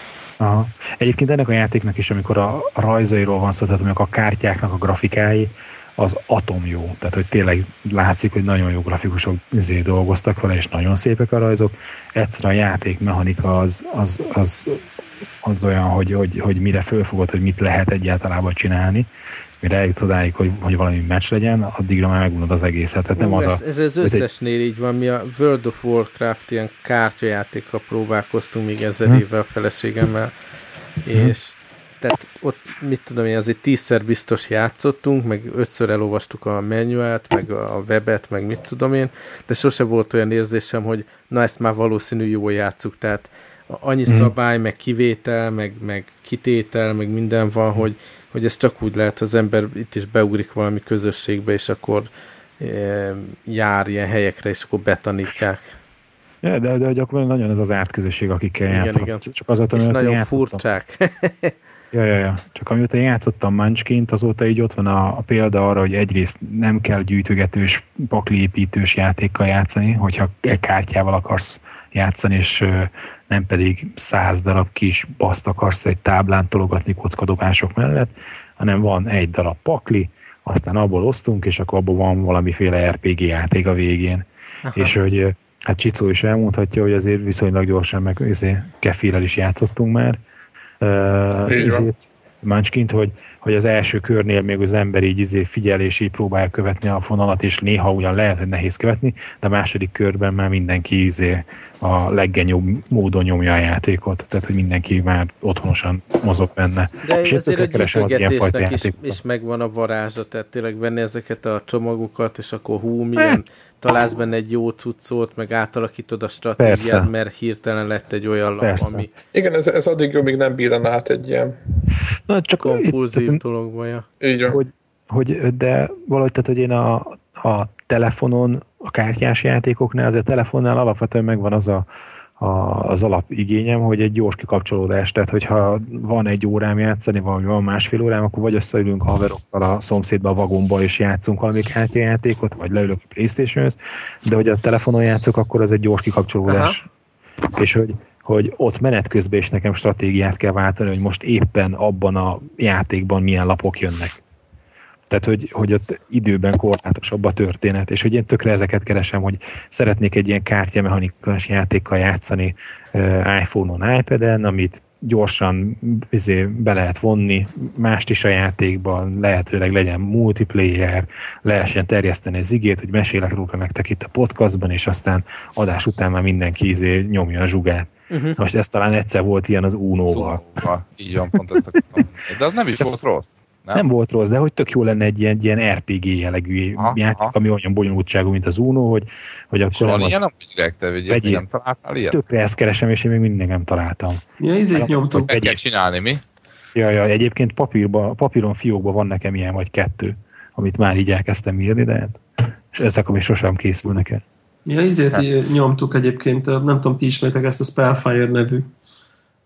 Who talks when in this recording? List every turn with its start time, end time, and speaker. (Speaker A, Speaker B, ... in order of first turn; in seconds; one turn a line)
Speaker A: 0.4-14.8
Speaker A: 15.4-19.1
Speaker A: 19.6-24.2
Speaker B: 23.2-30.3
Speaker B: 31.0-55.8
Speaker A: 44.1-44.3
Speaker A: 56.4-60.6
Speaker B: 58.7-61.5
Speaker A: 61.9-90.2
Speaker B: 84.6-85.0
Speaker A: 90.8-109.2
Speaker C: 91.5-91.9
Speaker B: 107.0-119.1
Speaker A: 116.6-117.1
Speaker A: 118.6-119.1
Speaker C: 119.3-121.5
Speaker A: 122.3-123.4
Speaker B: 122.6-124.1
Speaker C: 124.2-124.6
Speaker A: 124.5-131.9
Speaker A: 132.4-146.8
Speaker B: 146.5-146.8
Speaker A: 147.6-154.2
Speaker A: 155.1-180.4
Speaker B: 178.1-178.4
Speaker D: 180.1-183.8
Speaker A: 181.3-182.0
Speaker A: 182.6-183.0
Speaker A: 183.7-190.2
Speaker D: 186.8-187.3
Speaker D: 189.7-192.2
Speaker A: 191.1-191.4
Speaker A: 192.1-195.6
Speaker E: 194.4-195.3
Speaker D: 195.3-196.2
Speaker A: 196.8-204.2
Speaker E: 204.7-208.7